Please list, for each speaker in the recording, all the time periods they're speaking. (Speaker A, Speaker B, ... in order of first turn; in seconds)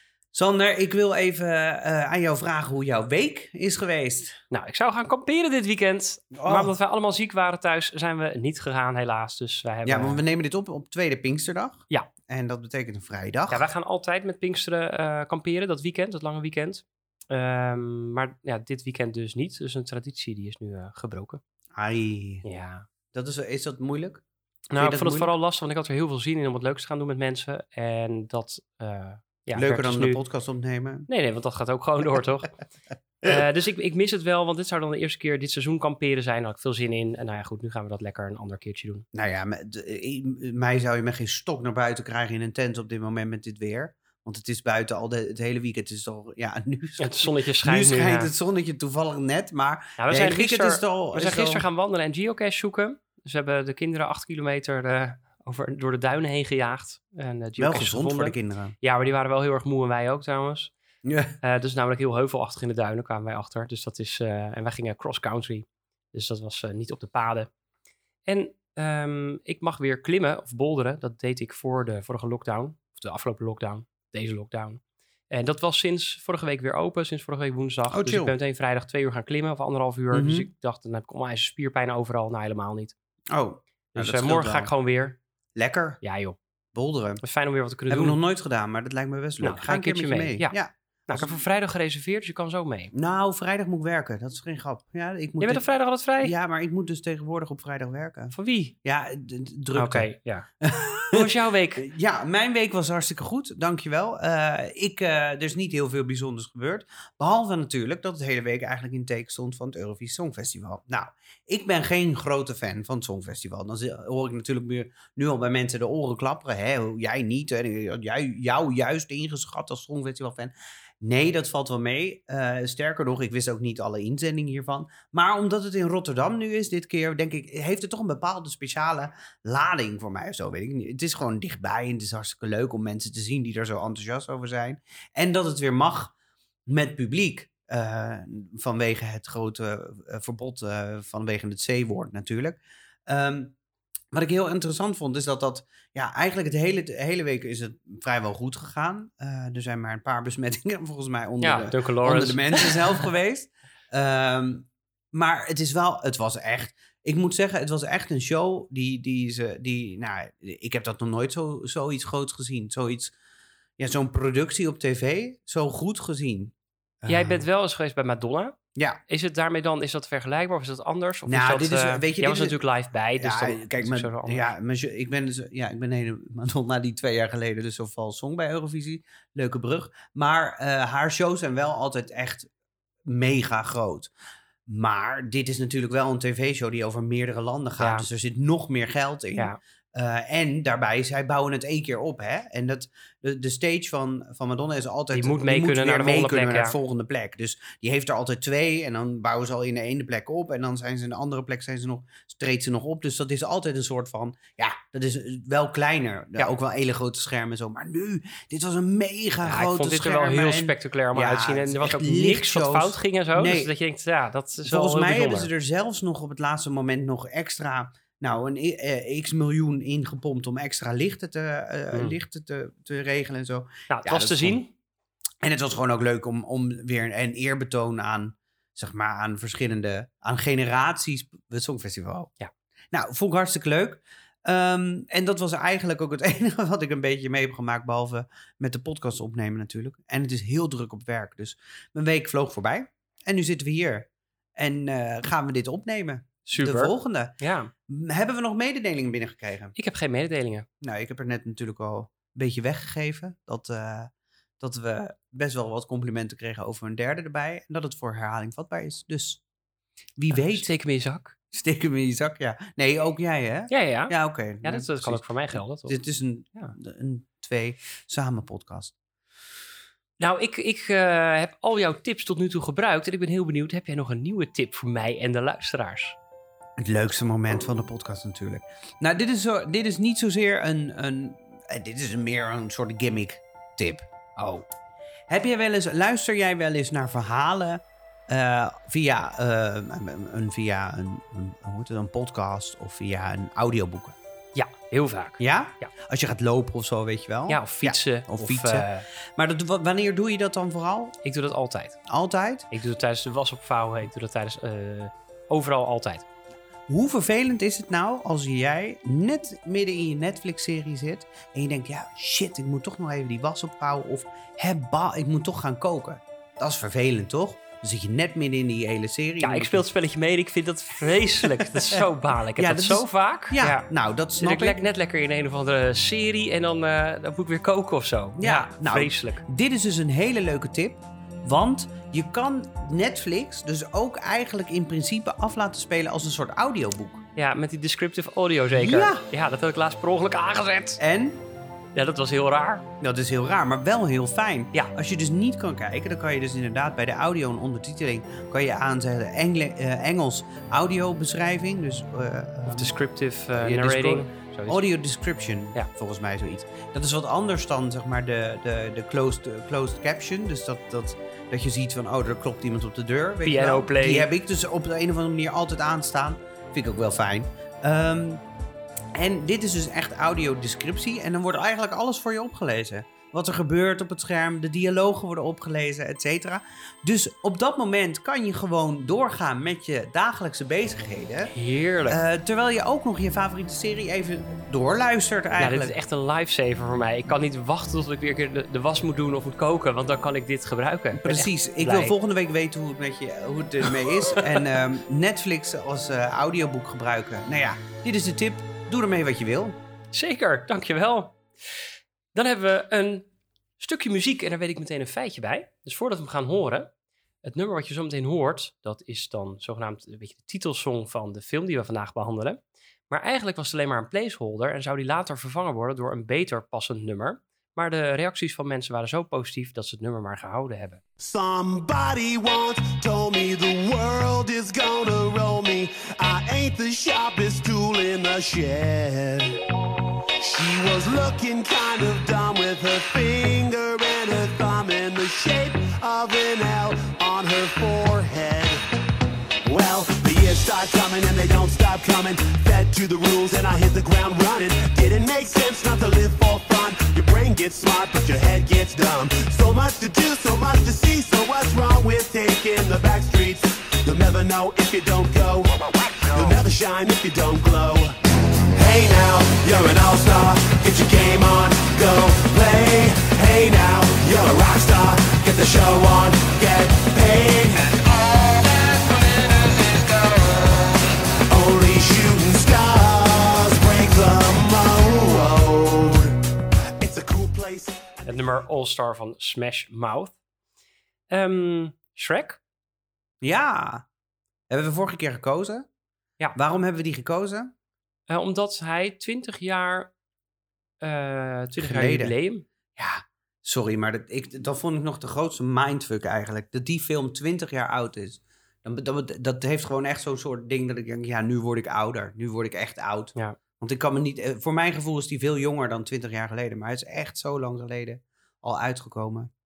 Speaker A: 0.3-4.4, 6.3-6.7, 9.8-13.7, 21.7-22.4, 23.1-24.2, 24.8-25.3, 29.5-31.1, 39.1-51.6, 57.6-58.8, 61.0-61.4, 77.9-78.3, 80.1-80.5, 83.3-84.7, 85.5-86.0, 86.7-87.2, 87.9-91.4, 92.9-95.6, 96.2-100.1, 100.6-136.1, 136.7-143.6, 144.1-163.1, 163.8-167.4, 171.3-172.6, 173.2-182.5, 183.1-184.1, 184.7-213.7, 214.6-224.6, 225.4-232.3, 232.9-247.3, 247.9-249.7, 250.8-259.4, 260.2-260.7, 261.5-268.9, 276.8-284.1, 285.3-294.1, 295.4-301.1, 302.1-302.7, 306.9-319.8, 321.4-322.0, 322.6-324.8, 328.4-337.2, 338.7-339.2, 341.0-341.4, 343.0-352.9, 353.5-368.4, 369.1-381.5, 382.1-385.9, 391.1-399.8, 483.4-484.1, 484.7-485.9, 486.5-487.7, 491.8-492.3, 492.9-509.5
Speaker B: 4.5-10.2, 13.5-21.4, 22.4-22.9, 24.7-30.2, 31.1-32.5, 33.2-39.0, 47.0-48.3, 50.0-60.7, 61.4-67.5, 68.2-82.9, 83.9-85.2, 86.0-86.4, 87.2-88.2, 89.4-90.6, 91.1-92.9, 95.4-96.3, 98.3-98.7, 99.7-100.5, 101.1-101.8, 151.4-153.0, 167.1-174.5, 187.8-188.1, 195.1-196.8, 209.4-215.5, 221.9-222.2, 223.9-224.7, 246.5-247.7, 249.7-250.7, 260.3-261.3, 263.7-265.9, 270.2-276.2, 284.4-284.6, 294.5-295.9, 297.5-299.1, 301.2-302.0, 302.7-306.2, 319.4-323.9, 324.4-329.4, 337.4-341.0, 341.9-342.8, 352.6-354.8, 363.4-364.3, 381.5-382.2, 385.6-392.1, 394.0-394.6, 400.1-401.4, 402.3-403.2, 403.8-406.9, 407.4-421.0, 478.2-480.3, 481.3-482.6, 488.3-490.1, 491.0-492.7
Speaker C: 421.2-429.6, 430.4-438.8, 439.6-458.2, 458.7-470.9, 471.5-476.3, 477.0-478.2